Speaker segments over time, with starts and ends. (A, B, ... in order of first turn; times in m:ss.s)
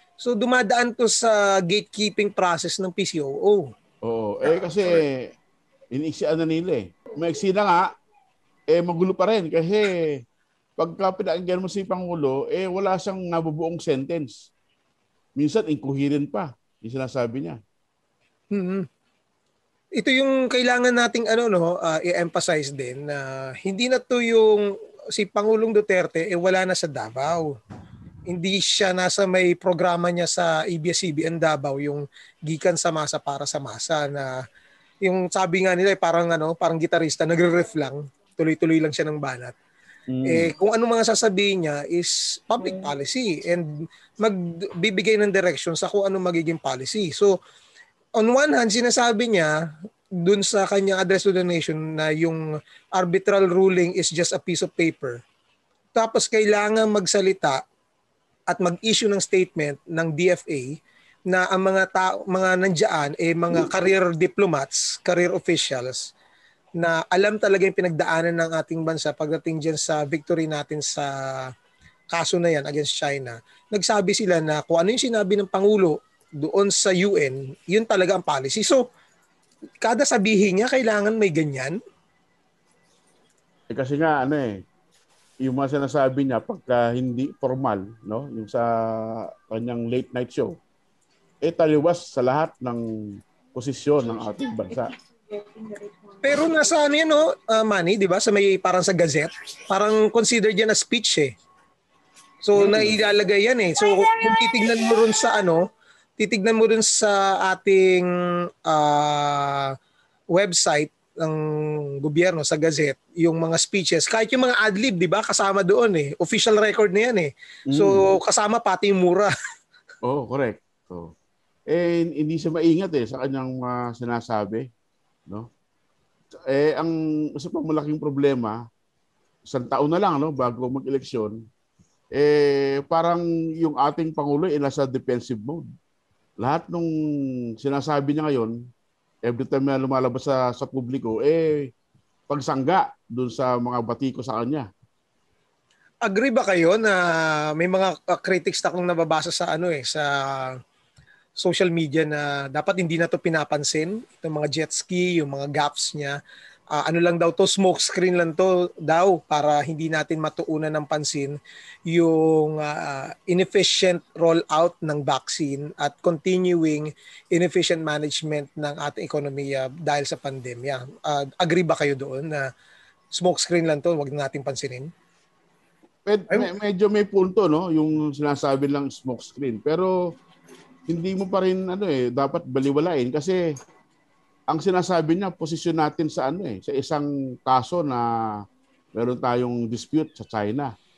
0:00.2-0:03.7 A
0:04.0-0:05.3 B
0:05.9-0:07.9 B
0:08.7-0:10.2 B
0:10.8-0:14.5 B
0:15.4-0:17.6 B
0:18.5-0:18.9 A
0:20.0-0:27.5 A
0:28.3-0:34.4 A
0:35.0-0:39.5 A
0:40.1-0:40.5 B
0:40.2-0:47.4 A
0:48.2-0:49.5 A
0:50.2-0:52.4 A
0:53.0-0:55.2 A
0:56.0-0:57.6 A
0:58.5-1:00.8 A
1:01.3-1:06.1 A
1:06.8-1:11.5 A
1:12.1-1:18.8 A
1:19.8-1:21.8 A
1:23.7-1:24.6 B
1:25.4-1:30.6 B
1:31.4-1:34.9 B
1:36.2-1:41.3 A
1:42.4-1:45.6 A
1:42.6-1:43.0 B
1:46.2-1:49.8 A
1:50.3-1:59.3 A
1:57.7-1:58.0 B
2:00.0-2:01.1 B
2:01.7-2:04.7 B
2:06.5-2:08.6 B
2:09.5-2:11.4 B
2:12.1-2:15.6 B
2:16.4-2:16.9 B
2:17.6-2:18.6 B
2:19.2-2:21.7 B
2:22.3-2:24.7 B
2:26.0-2:30.6 A
2:31.4-2:36.2 A
2:36.7-2:41.4 A
2:41.9-2:52.5 A
2:53.1-2:54.9 A
2:56.1-3:00.1 B
3:00.9-3:03.4 B
3:04.5-3:08.4 B
3:09.0-3:10.7 B